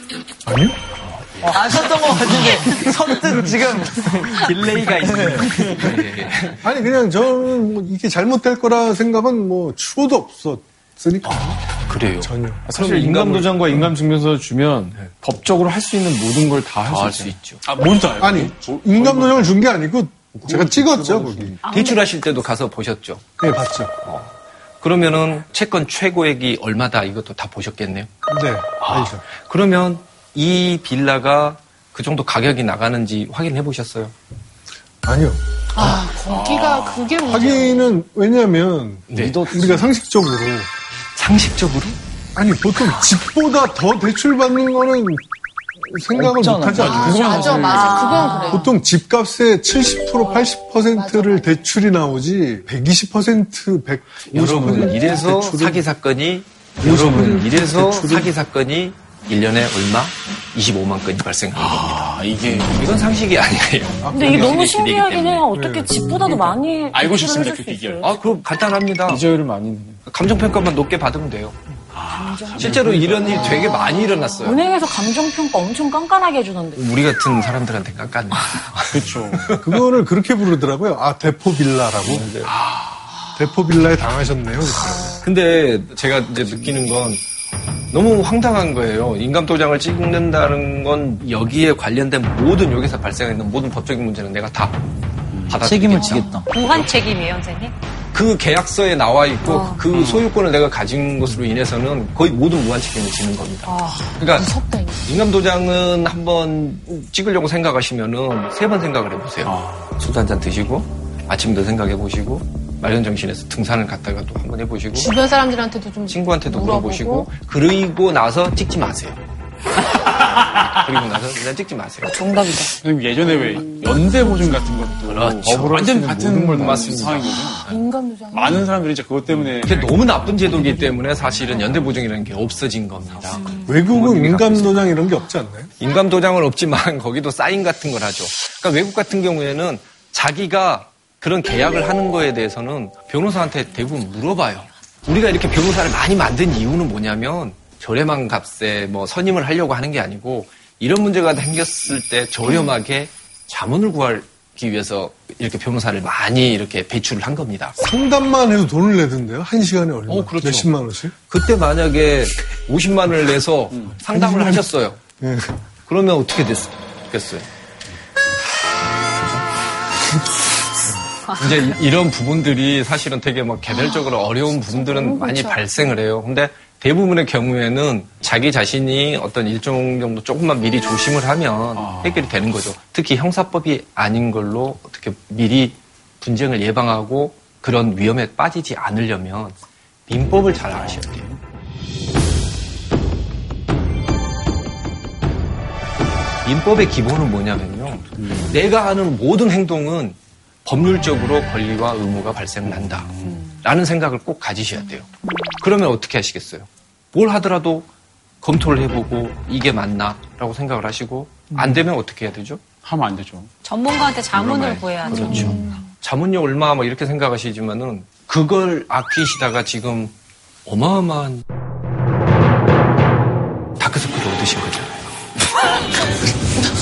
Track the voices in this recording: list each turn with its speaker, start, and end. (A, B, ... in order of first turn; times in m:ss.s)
0:00.5-0:00.8 A
0:01.0-0:02.8 B
0:01.4-0:06.0 C
0:04.5-0:06.6 B
0:05.2-0:05.9 A
0:06.6-0:12.6 A
0:11.2-0:13.8 B
0:12.7-0:17.4 D
0:16.9-0:17.6 B
0:17.6-0:19.6 E
0:18.2-0:21.6 A
0:20.4-0:28.1 B
0:21.6-0:22.0 F
0:23.4-0:23.9 A
0:28.3-0:29.2 A
0:28.8-0:34.1 B
0:35.0-0:36.0 A
0:35.8-0:38.0 G
0:36.2-0:37.5 E
0:37.2-0:40.7 A
0:39.1-0:39.6 B
0:39.1-0:39.9 C
0:41.2-0:42.0 B
0:42.4-0:45.2 A
0:45.9-0:47.3 A
0:46.1-0:48.4 C
0:46.8-0:48.8 G
0:46.9-0:48.0 E
0:48.2-0:48.5 H
0:48.4-0:55.8 A
0:50.2-0:51.6 G
0:54.3-1:05.5 B
0:56.8-0:58.3 A
1:01.5-1:03.1 E
1:04.0-1:04.6 A
1:04.1-1:08.1 H
1:05.5-1:06.0 A
1:06.2-1:08.2 E
1:08.0-1:09.2 B
1:09.1-1:10.0 D
1:10.1-1:11.6 B
1:11.9-1:13.7 E
1:12.5-1:14.6 B
1:14.4-1:16.8 H
1:16.8-1:19.8 B
1:18.9-1:19.6 E
1:19.6-1:22.3 A
1:22.0-1:22.5 B
1:22.4-1:23.0 E
1:23.4-1:25.2 A
1:25.2-1:27.2 B
1:27.9-1:34.8 B
1:35.3-1:35.6 E
1:35.5-1:36.6 B
1:35.6-1:36.5 C
1:36.0-1:36.4 G
1:36.5-1:37.7 F
1:38.1-1:44.5 B
1:39.8-1:40.3 E
1:43.7-1:44.0 F
1:44.3-1:45.0 G
1:45.0-1:55.1 B
1:49.5-1:49.9 E
1:55.0-1:57.3 G
1:56.1-1:59.2 B
2:00.0-2:02.3 B
2:02.8-2:07.6 E
2:05.0-2:07.8 B
2:05.4-2:07.1 D
2:07.5-2:08.7 G
2:08.3-2:10.8 E
2:09.4-2:15.0 B
2:13.1-2:13.4 E
2:13.7-2:15.7 A
2:15.8-2:37.8 B
2:37.8-2:41.1 A
2:40.1-2:40.7 B
2:41.3-2:45.0 B
2:43.7-2:44.0 E
2:44.1-2:44.7 A
2:45.2-2:45.6 A
2:45.9-2:47.5 B
2:48.9-2:49.4 B
2:51.3-3:11.3 B
2:54.7-2:55.6 G
3:01.8-3:02.4 E
3:10.7-3:11.4 E
3:16.4-3:25.1 B
3:18.2-3:18.6 E
3:22.7-3:23.5 E
3:25.6-3:27.9 B
3:28.4-3:32.6 B
3:31.5-3:31.9 E
3:32.8-3:33.5 E
3:33.6-3:35.6 F
3:34.3-3:41.4 B
3:35.1-3:35.8 G
3:43.8-3:45.1 B